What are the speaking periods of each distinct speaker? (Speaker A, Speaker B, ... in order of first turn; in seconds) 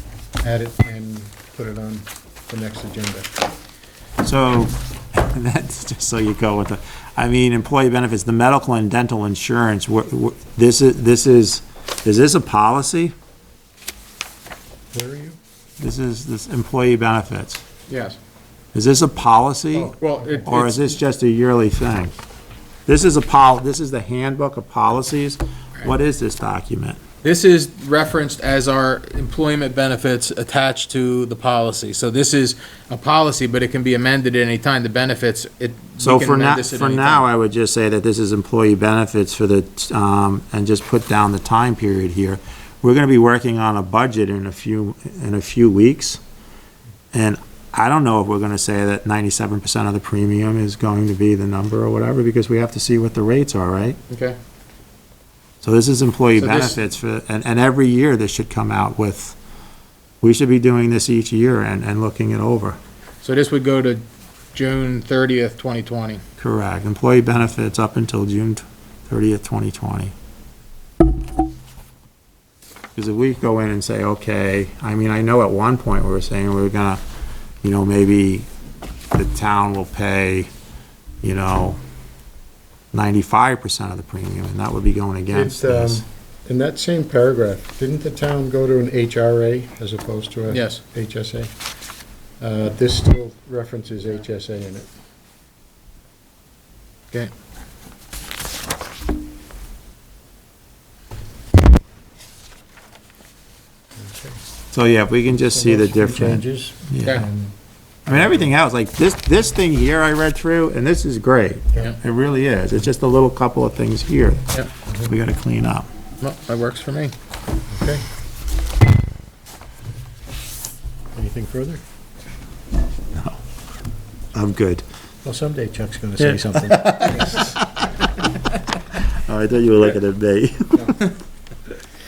Speaker A: 0.4-3.3, 14.9-15.4, 19.8-20.4, 85.3-91.5, 92.4-94.9, 104.0-104.3, 105.3-107.5, 108.1-108.5, 117.7-118.0, 121.1-121.8, 125.2-127.5
Speaker B: 4.2-13.1, 15.8-17.6, 18.7-19.9, 20.4-22.1, 22.9-27.0, 36.0-46.2, 47.1-54.0, 55.6-59.4, 60.2-62.8, 66.4-70.1, 73.0-77.0, 77.6-78.5, 79.1-80.5, 81.2-81.8, 82.9-86.0, 104.7-107.2, 108.0-114.5, 115.0-115.9, 124.3-124.8, 126.2-127.8, 129.1-131.0
Speaker C: 17.9-18.2, 19.9-20.9, 27.2-37.2, 54.1-54.4, 56.4-56.8, 63.2-64.0, 64.5-66.2, 90.5-90.8, 116.2-117.1